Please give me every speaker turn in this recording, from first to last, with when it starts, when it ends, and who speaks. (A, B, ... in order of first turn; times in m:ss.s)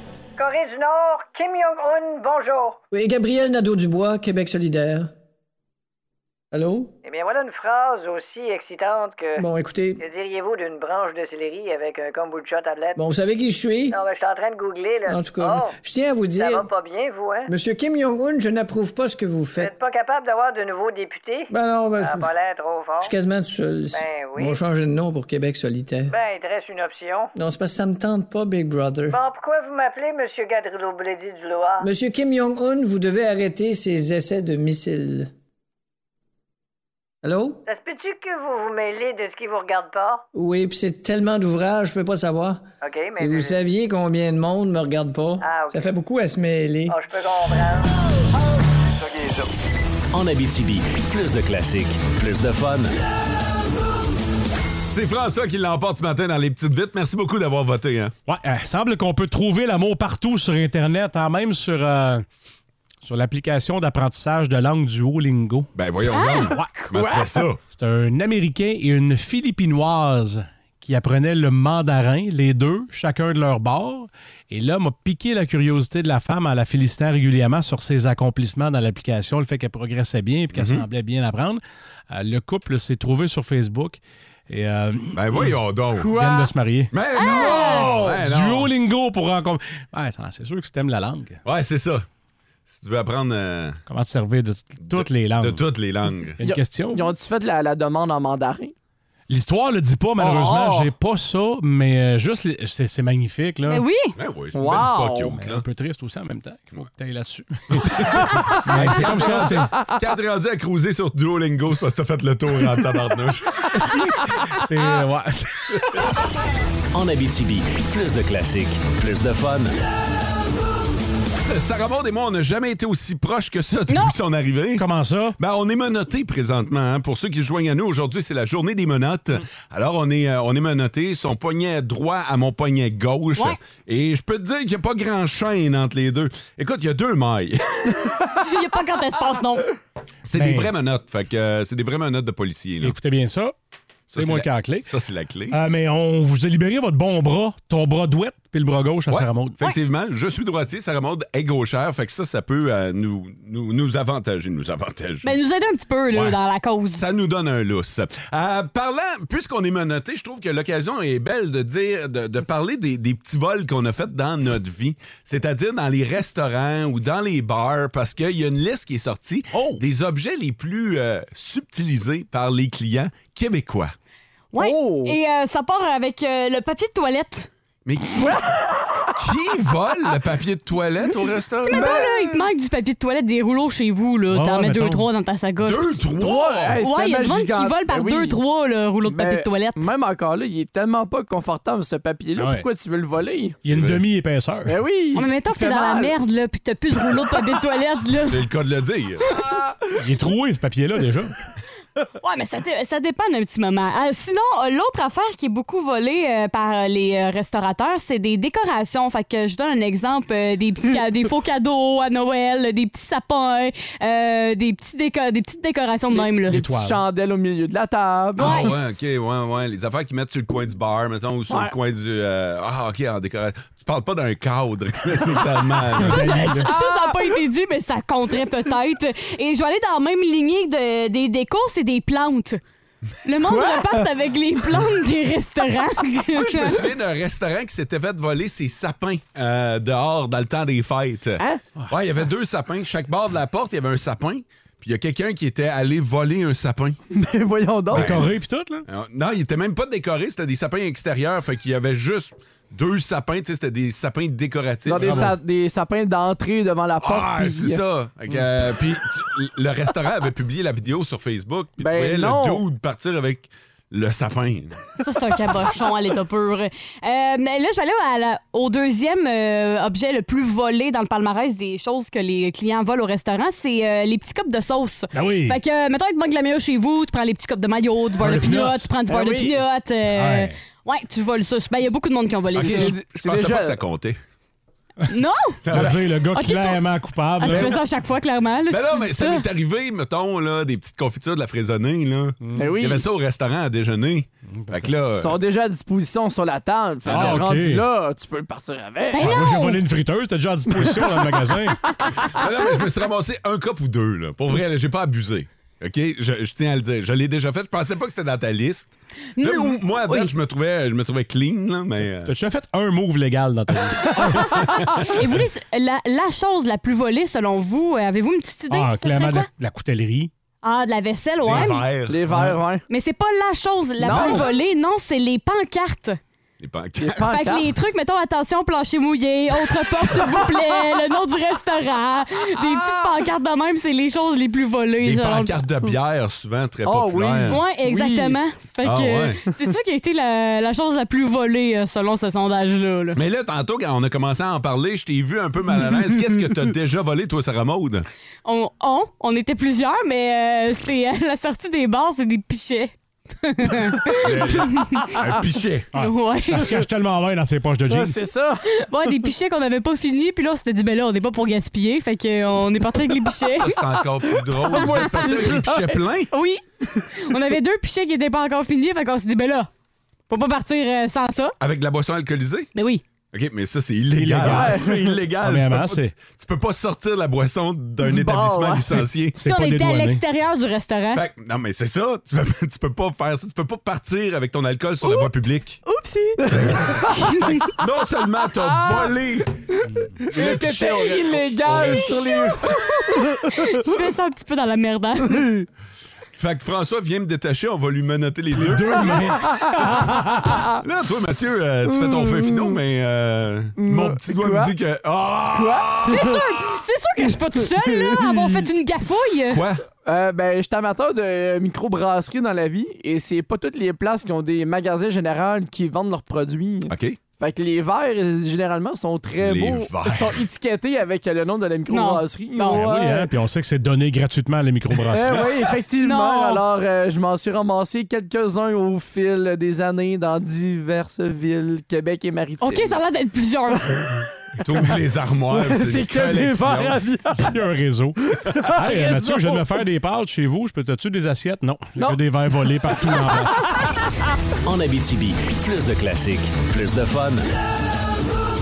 0:00.4-0:02.8 A
0:02.9-0:05.1 B
0:06.5-0:06.9 B
0:07.0-0:13.0 A
0:09.4-0:10.0 B
0:13.0-0:14.0 B
0:13.9-0:15.8 A
0:15.1-0:16.7 B
0:16.3-0:17.5 A
0:17.5-0:19.7 B
0:19.6-0:23.1 A
0:21.5-0:22.3 B
0:23.0-0:26.1 B
0:23.9-0:24.6 A
0:26.1-0:27.3 A
0:27.4-0:29.2 B
0:29.1-0:31.9 A
0:31.8-0:35.3 B
0:37.2-0:37.6 B
0:37.7-0:40.2 A
0:40.4-0:42.7 B
0:42.8-0:43.6 A
0:43.2-0:47.0 B
0:45.4-0:46.0 A
0:46.9-0:47.9 A
0:50.1-0:53.0 C
0:54.9-0:58.1 D
0:58.3-1:02.2 E
1:03.0-1:05.7 E
1:05.8-1:07.6 D
1:06.1-1:06.5 F
1:06.5-1:06.9 E
1:06.9-1:07.3 G
1:07.7-1:25.6 E
1:20.5-1:20.9 D
1:25.2-1:26.2 D
1:26.0-1:26.5 G
1:26.1-1:31.4 E
1:26.9-1:28.7 D
1:27.2-1:27.9 F
1:31.4-1:32.0 D
1:32.7-1:33.8 D
1:33.9-1:35.6 E
1:34.9-1:36.4 D
1:36.4-1:37.1 E
1:36.4-1:38.7 G
1:39.3-1:43.8 E
1:40.2-1:40.9 G
1:43.7-1:44.2 F
1:44.2-1:45.6 D
1:44.5-1:45.3 G
1:45.2-1:49.7 E
1:47.7-1:53.8 D
1:49.2-1:49.8 G
1:53.8-1:56.0 E
1:56.9-1:59.8 C
2:01.5-2:04.9 D
2:04.8-2:05.4 E
2:05.4-2:18.2 D
2:18.4-2:19.7 F
2:20.3-2:23.0 D
2:20.3-2:20.7 E
2:22.8-2:23.5 E
2:24.1-2:24.9 E
2:24.2-2:25.6 D
2:25.5-2:29.6 E
2:29.1-2:35.3 D
2:35.2-2:37.0 F
2:36.1-2:36.4 D
2:36.9-2:53.9 D
2:54.5-2:57.5 F
2:54.6-2:55.2 G
2:57.8-2:58.5 D
2:58.2-2:59.1 G
2:59.1-3:02.1 D
3:01.6-3:06.0 F
3:01.7-3:02.1 G
3:04.3-3:05.1 E
3:05.6-3:06.8 D
3:06.2-3:08.4 G
3:06.7-3:09.9 F
3:09.0-3:13.6 G
3:12.4-3:12.7 E
3:13.6-3:14.8 E
3:13.7-3:14.1 D
3:14.7-3:16.1 G
3:15.1-3:18.4 F
3:18.3-3:19.3 D
3:20.0-3:21.3 E
3:22.2-3:36.6 F
3:36.1-3:38.7 G
3:36.5-3:37.0 E
3:38.4-3:38.7 F
3:38.4-3:46.6 D
3:46.0-3:52.6 F
3:46.0-3:46.7 E
3:46.7-3:47.3 G
3:53.2-3:56.8 F
3:53.5-3:54.0 G
3:56.3-4:07.0 D
4:07.2-4:08.2 G
4:07.9-4:08.8 E
4:07.9-4:08.4 D
4:08.9-4:15.4 D
4:14.9-4:17.8 G
4:14.9-4:15.4 E
4:17.0-4:24.8 D
4:21.8-4:22.6 G
4:25.0-4:42.9 F
4:35.1-4:35.6 E
4:38.2-4:38.9 E
4:39.1-4:39.6 G
4:40.2-4:40.5 E
4:42.5-4:44.2 D
4:42.6-4:43.8 G
4:45.1-4:45.6 F
4:45.7-4:46.2 D
4:45.7-4:47.8 E
4:46.3-4:46.8 F
4:47.4-4:49.4 F
4:47.5-4:47.8 D
4:48.7-4:55.4 D
4:52.4-4:52.7 E
4:52.6-4:53.0 G
4:54.5-4:54.9 E
4:55.1-4:59.3 G
4:57.1-4:57.5 D
4:57.1-4:57.8 E
4:59.1-4:59.8 F
4:59.2-5:01.8 E
5:00.7-5:01.3 G
5:02.4-5:12.3 D
5:09.4-5:10.3 F
5:12.2-5:15.0 E
5:15.1-5:19.5 F
5:18.7-5:20.3 E
5:20.6-5:21.8 F
5:21.4-5:22.2 D
5:22.1-5:22.8 G
5:22.3-5:22.6 E
5:22.9-5:26.2 F
5:24.0-5:24.4 G
5:24.1-5:24.5 D
5:26.6-5:27.4 D
5:27.0-5:27.7 G
5:27.2-5:35.6 F
5:35.0-5:37.6 D
5:36.8-5:38.4 G
5:37.5-5:43.2 F
5:38.8-5:39.4 D
5:43.2-5:48.1 D
5:48.4-5:55.1 F
5:54.2-5:55.9 D
5:55.9-5:58.2 E
5:56.0-5:56.8 F
5:57.9-5:58.6 G
5:58.7-6:03.8 F
6:03.6-6:06.3 D
6:04.6-6:06.0 G
6:04.7-6:05.5 F
6:06.3-6:06.6 F
6:07.1-6:09.7 F
6:10.3-6:11.6 F
6:11.6-6:12.7 D
6:12.8-6:13.0 F
6:13.3-6:19.4 D
6:14.2-6:16.2 E
6:14.4-6:15.2 G
6:18.0-6:18.9 G
6:19.4-6:20.2 E
6:19.4-6:21.2 F
6:21.1-6:25.8 D
6:25.0-6:26.6 F
6:26.4-6:27.2 G
6:26.5-6:29.6 D
6:27.1-6:27.5 F
6:28.6-6:29.1 G
6:29.9-6:30.2 E
6:30.2-6:33.5 G
6:30.3-6:32.5 D
6:31.7-6:35.5 F
6:36.4-6:39.4 D
6:38.5-6:40.5 E
6:39.4-6:39.7 G
6:40.8-6:46.3 D
6:41.9-6:42.8 G
6:43.8-6:44.7 G
6:45.5-6:46.4 G
6:46.1-6:49.6 F
6:49.5-6:49.8 D
6:50.0-7:03.3 G
6:56.9-6:57.2 D
6:59.4-7:00.4 D
7:01.9-7:02.8 F
7:02.7-7:05.5 E
7:05.1-7:13.0 G
7:06.0-7:06.6 F
7:12.6-7:14.1 F
7:14.6-7:17.0 D
7:15.5-7:17.6 G
7:17.4-7:18.2 E
7:18.7-7:23.8 E
7:18.8-7:19.6 G
7:24.6-7:27.5 C